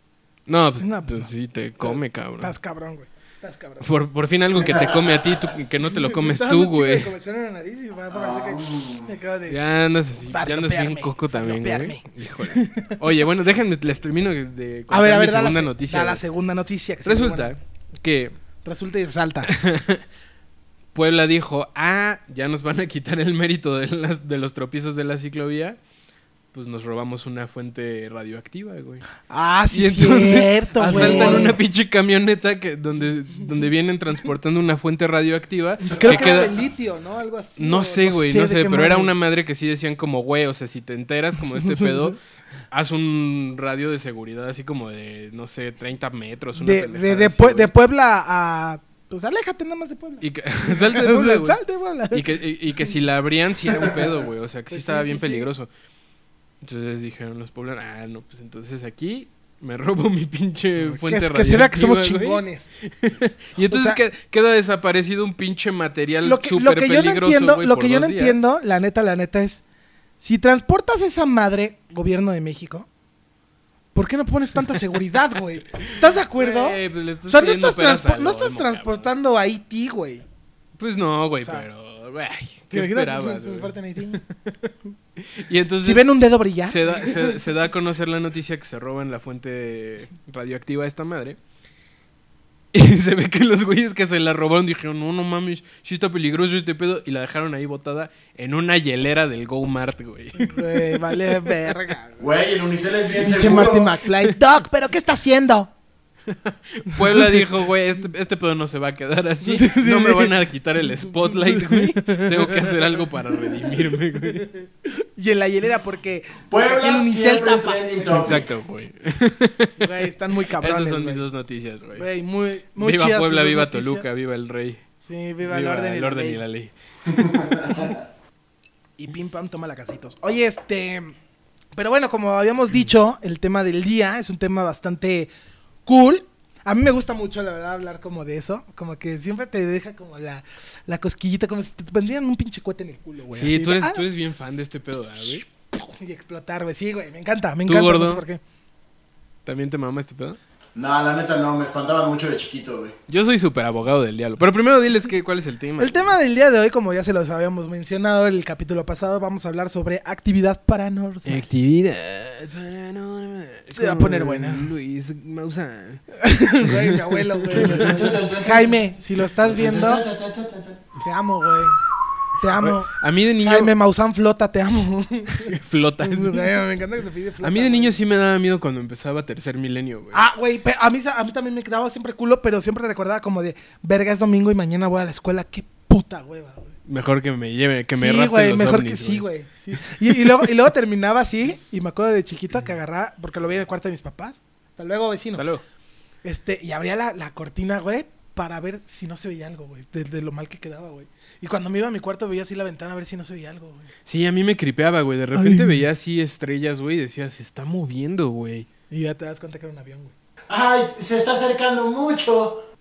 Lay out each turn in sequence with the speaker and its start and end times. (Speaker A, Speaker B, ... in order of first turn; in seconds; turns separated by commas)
Speaker A: 0.5-2.5, Speaker B: 0.8-3.8, Speaker A: 3.8-7.1, Speaker C: 4.7-5.1, Speaker B: 5.9-9.6, Speaker C: 8.1-9.1, Speaker A: 9.5-16.2, Speaker B: 10.3-12.9, Speaker B: 14.9-17.5, Speaker A: 17.0-18.4, Speaker B: 18.6-19.5, Speaker A: 19.5-20.0, Speaker A: 20.9-25.8, Speaker A: 26.5-29.0, Speaker B: 29.3-31.6, Speaker A: 29.7-36.5, Speaker C: 30.8-31.5, Speaker B: 35.9-39.1, Speaker C: 35.9-36.4, Speaker A: 37.6-42.2, Speaker B: 41.4-42.1, Speaker A: 42.7-47.7, Speaker B: 46.6-52.9, Speaker A: 50.2-51.6, Speaker A: 52.1-55.7, Speaker B: 53.8-54.0, Speaker B: 54.7-55.5, Speaker A: 56.6-68.4, Speaker B: 60.8-62.7, Speaker B: 63.6-64.0, Speaker B: 66.2-69.6, Speaker B: 70.2-72.9, Speaker B: 73.9-80.2, Speaker A: 75.9-79.1, Speaker A: 80.8-84.2, Speaker B: 81.4-81.7, Speaker B: 82.7-84.2, Speaker A: 85.2-86.1, Speaker B: 85.8-87.4, Speaker A: 86.7-91.4, Speaker A: 92.7-100.9, Speaker B: 100.4-102.2, Speaker C: 102.2-104.0, Speaker B: 103.2-105.7, Speaker A: 106.4-114.5, Speaker B: 107.0-107.4, Speaker B: 109.4-110.3, Speaker B: 111.2-112.9, Speaker B: 114.6-118.3, Speaker C: 116.5-118.5, Speaker A: 118.1-119.8, Speaker B: 119.8-121.2, Speaker A: 120.6-122.0, Speaker B: 122.0-124.0, Speaker A: 122.8-124.8, Speaker B: 125.0-126.4, Speaker A: 125.4-126.7, Speaker C: 127.1-127.9, Speaker B: 129.0-131.2, Speaker B: 131.7-135.3, Speaker B: 135.8-144.0, Speaker A: 143.3-145.4, Speaker B: 145.7-148.4, Speaker A: 147.7-148.2, Speaker A: 149.5-150.4, Speaker C: 150.7-152.9, Speaker A: 153.1-156.1, Speaker B: 155.8-161.4, Speaker A: 161.2-166.0, Speaker B: 163.7-164.7, Speaker B: 166.2-170.0, Speaker A: 167.5-167.8, Speaker C: 167.5-168.8, Speaker C: 169.4-170.8, Speaker B: 171.0-171.8, Speaker B: 172.4-178.1, Speaker A: 172.6-173.7, Speaker A: 175.4-176.5, Speaker A: 177.4-180.2, Speaker B: 180.1-186.7, Speaker A: 186.9-189.2, Speaker B: 187.9-195.4, Speaker A: 195.3-195.6, Speaker B: 196.2-203.9, Speaker A: 204.1-208.7, Speaker B: 205.3-205.8, Speaker B: 208.9-210.1, Speaker C: 210.5-212.7